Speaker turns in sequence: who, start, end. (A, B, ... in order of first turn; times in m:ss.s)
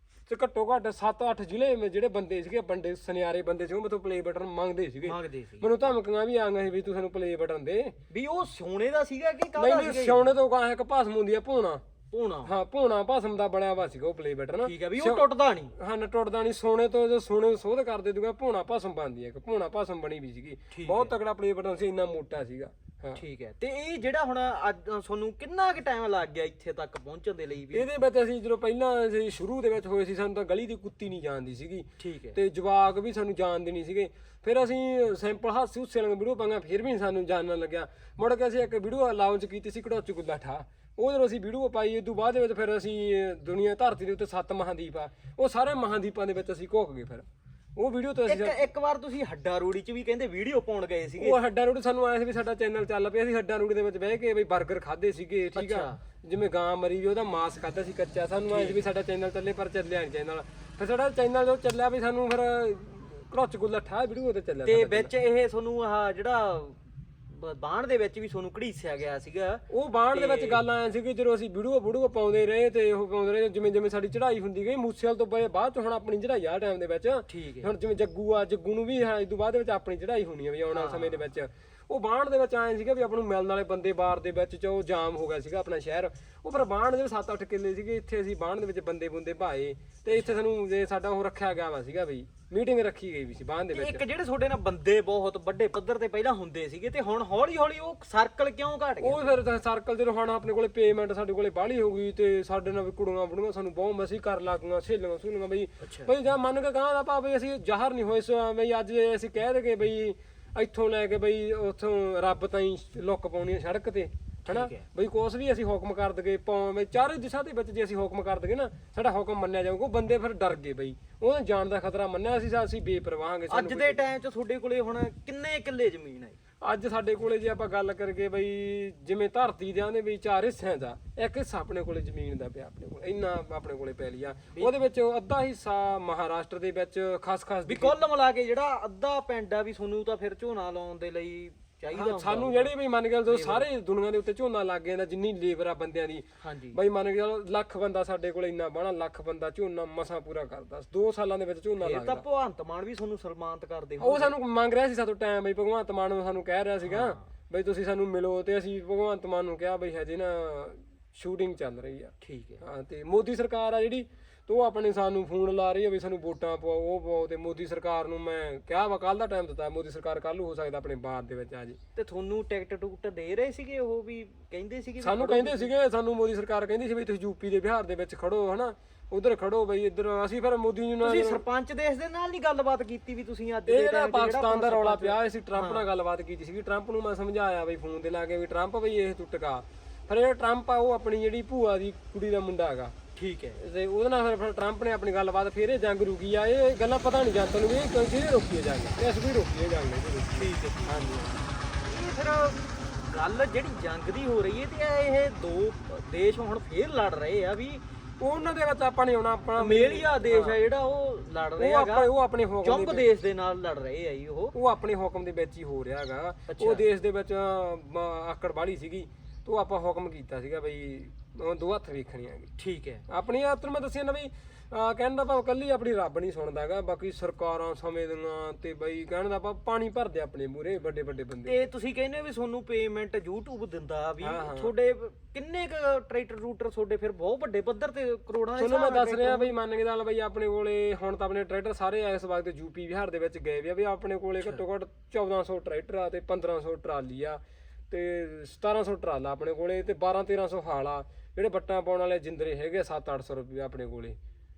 0:00.3-0:07.9 A
0:05.0-0:05.7 B
0:08.1-0:10.3 B
0:09.6-0:11.8 A
0:12.1-0:12.5 B
0:12.4-0:23.2 A
0:14.6-0:15.7 B
0:20.7-0:21.1 B
0:23.2-0:27.8 B
0:27.7-0:48.6 A
0:32.0-0:32.4 B
0:48.3-0:51.4 B
0:51.2-1:05.1 A
0:55.5-0:56.0 B
0:58.5-0:58.8 B
1:04.6-1:10.6 B
1:09.7-1:34.0 A
1:17.3-1:17.7 B
1:20.7-1:21.2 B
1:33.7-1:39.4 B
1:39.0-2:04.0 A
1:45.8-1:46.1 B
1:54.4-1:54.8 B
2:03.5-2:06.4 B
2:06.6-2:18.0 A
2:17.6-2:22.7 B
2:21.9-2:32.2 A
2:23.2-2:23.7 B
2:26.4-2:26.8 B
2:31.8-2:34.4 B
2:34.0-2:51.8 A
2:36.8-2:37.2 B
2:42.2-2:42.6 B
2:51.9-2:55.7 B
2:55.0-3:01.4 A
3:01.0-3:05.8 B
3:03.7-3:13.0 A
3:13.2-3:13.6 B
3:13.6-3:21.4 A
3:20.3-3:21.2 B
3:21.8-3:27.8 B
3:28.2-3:30.6 A
3:29.5-3:32.1 B
3:31.6-3:33.1 A
3:32.6-3:34.5 B
3:34.5-3:42.5 A
3:36.5-3:36.8 B
3:42.6-3:43.0 B
3:43.1-3:51.6 A
3:51.4-3:59.5 B
3:54.2-3:54.7 A
3:58.6-4:14.2 A